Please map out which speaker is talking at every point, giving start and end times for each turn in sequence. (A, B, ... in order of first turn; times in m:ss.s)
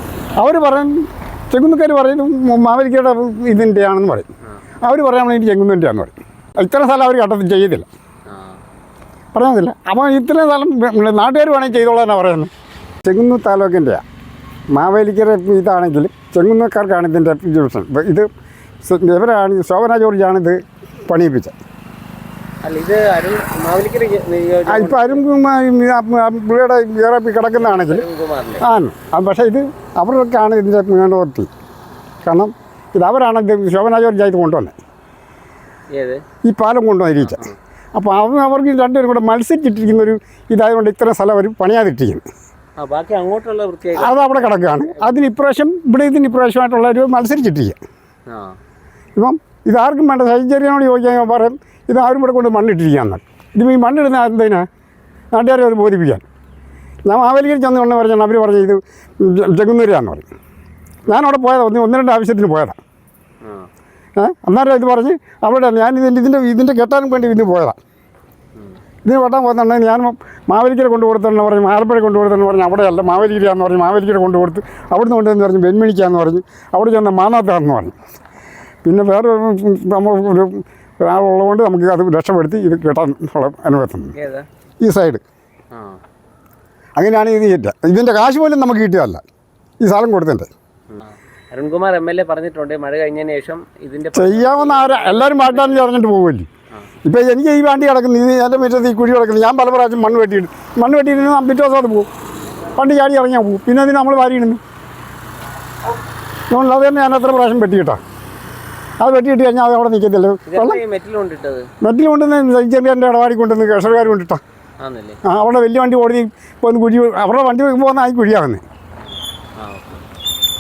0:00.4-0:04.3 A
0:04.8-0:07.9 A
0:08.3-0:08.6 B
0:09.3-0:12.5 A
0:13.0-0:14.0 A
0:14.7-0:18.3 A
0:18.8-0:21.6 A
0:22.6-0:25.2 B
0:24.7-0:28.0 A
0:27.6-0:28.6 B
0:28.6-0:31.5 A
0:32.2-0:34.8 A
0:35.9-0:36.2 B
0:36.4-0:42.2 A
0:37.2-0:37.6 B
0:42.8-0:45.2 B
0:44.0-0:47.8 A
0:48.3-0:48.6 B
0:49.2-0:54.7 A
0:55.3-0:56.2 A
0:57.1-1:00.3 A
1:01.1-1:02.8 A
1:03.4-1:03.7 B
1:04.2-1:07.8 A
1:09.0-1:18.0 A
1:18.8-1:24.1 A
1:24.2-1:24.5 B
1:24.8-1:25.2 A
1:25.7-1:26.0 B
1:27.0-1:29.2 A
1:29.8-1:30.5 A
1:30.9-1:35.8 B
1:34.1-1:36.5 A
1:37.0-1:42.1 A
1:42.8-1:44.6 A
1:46.5-1:48.0 A
1:49.0-1:50.8 A
1:50.5-1:51.7 B
1:51.8-1:54.4 A
1:54.8-1:55.2 B
1:55.2-1:58.6 A
1:59.6-2:00.0 B